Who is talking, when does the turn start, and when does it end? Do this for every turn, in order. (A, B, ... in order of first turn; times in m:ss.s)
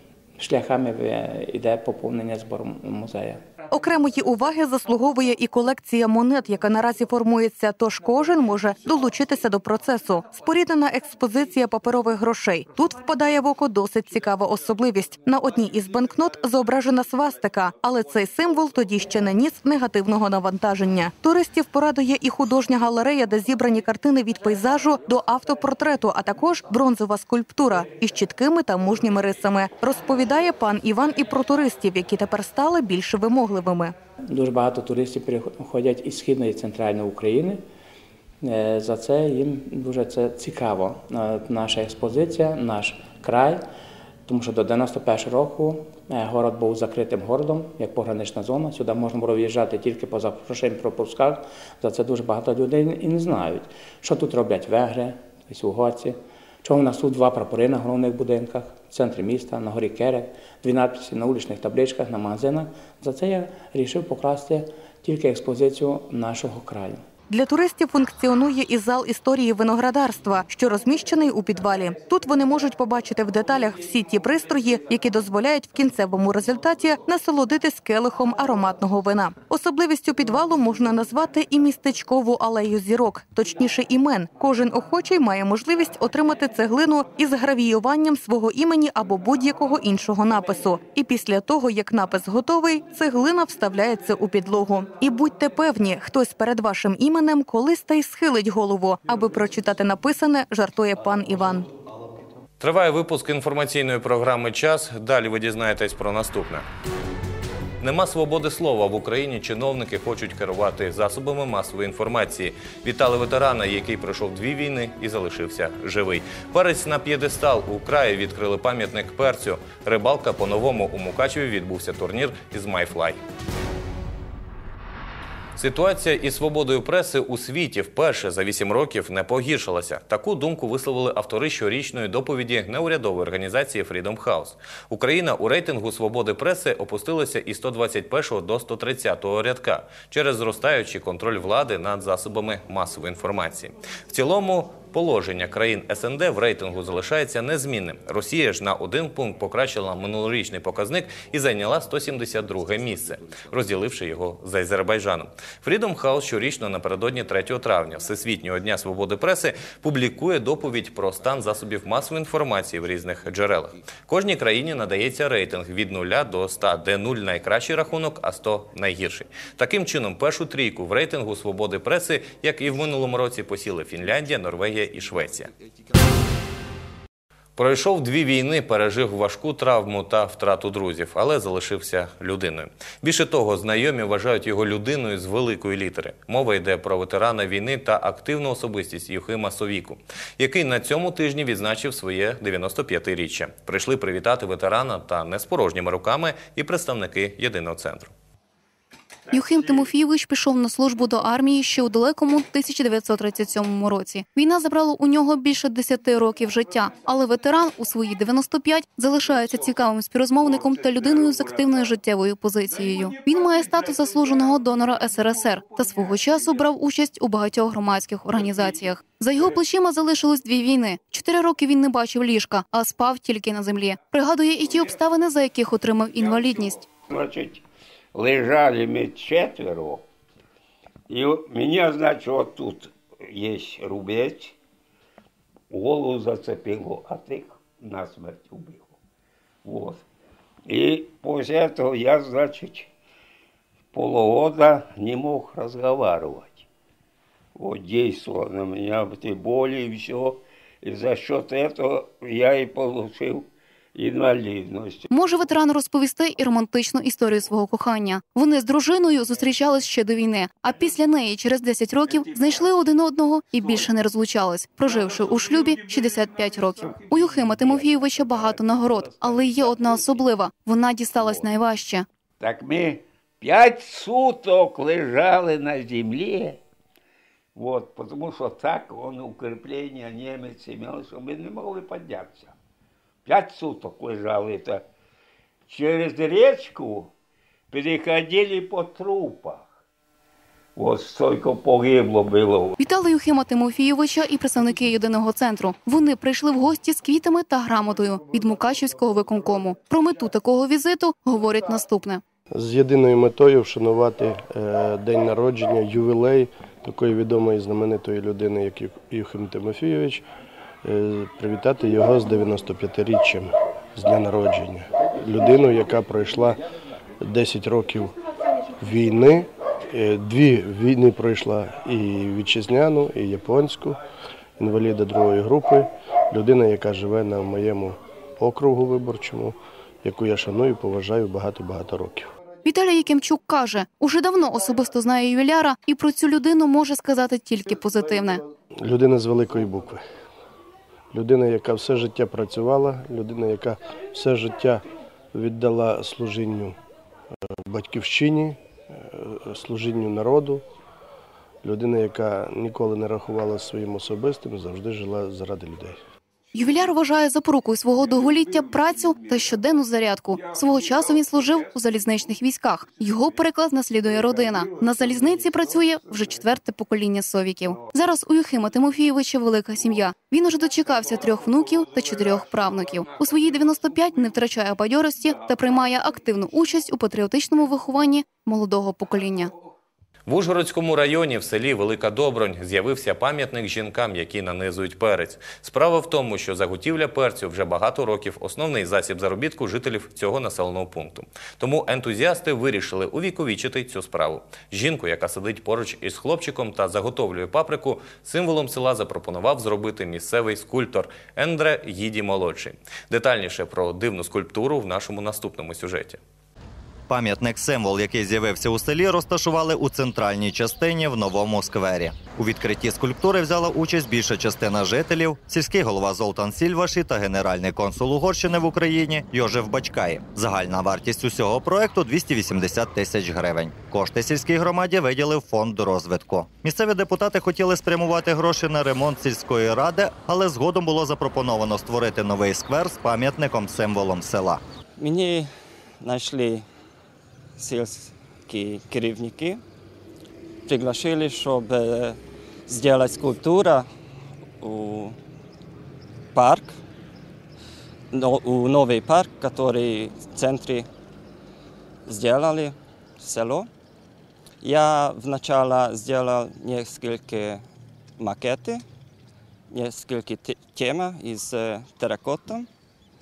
0:00.4-0:03.4 A
0:03.7-0:33.9 B
0:34.3-0:37.6 A
0:38.4-0:43.6 A
0:44.3-1:07.0 A
1:07.3-1:41.7 B
1:42.6-1:46.6 C
1:47.8-2:03.2 C
2:05.6-2:55.5 C
2:57.6-3:18.1 C
3:19.3-3:46.9 D
3:47.1-3:47.6 E
3:48.2-3:50.0 E
3:51.1-3:54.6 E
3:55.7-3:59.0 E
3:59.6-4:00.0 E
4:00.7-4:02.9 E
4:03.9-4:06.7 E
4:07.6-4:15.1 E
4:15.1-4:32.1 D
4:29.0-4:29.5 E
4:32.4-4:36.6 E
4:37.6-4:42.5 E
4:43.3-4:44.9 E
4:45.7-4:47.1 E
4:47.7-4:49.7 E
4:50.8-4:52.8 E
4:52.8-5:02.2 D
5:02.5-5:10.3 F
5:10.8-5:16.6 F
5:17.2-5:18.2 F
5:18.8-5:24.0 F
5:24.6-5:32.3 F
5:32.6-5:38.4 D
5:38.8-5:40.0 F
5:41.1-5:46.8 F
5:47.6-5:50.6 F
5:51.6-5:56.0 F
5:56.5-6:19.5 D
6:20.3-6:46.2 C
6:47.1-7:14.6 G
7:15.0-7:16.6 H
7:17.6-7:19.6 H
7:20.7-7:23.9 H
7:24.6-7:25.2 H
7:26.3-7:26.8 H
7:28.1-7:30.9 H
7:32.1-7:33.7 H
7:34.6-7:37.6 H
7:38.2-7:38.8 H
7:39.7-7:42.7 H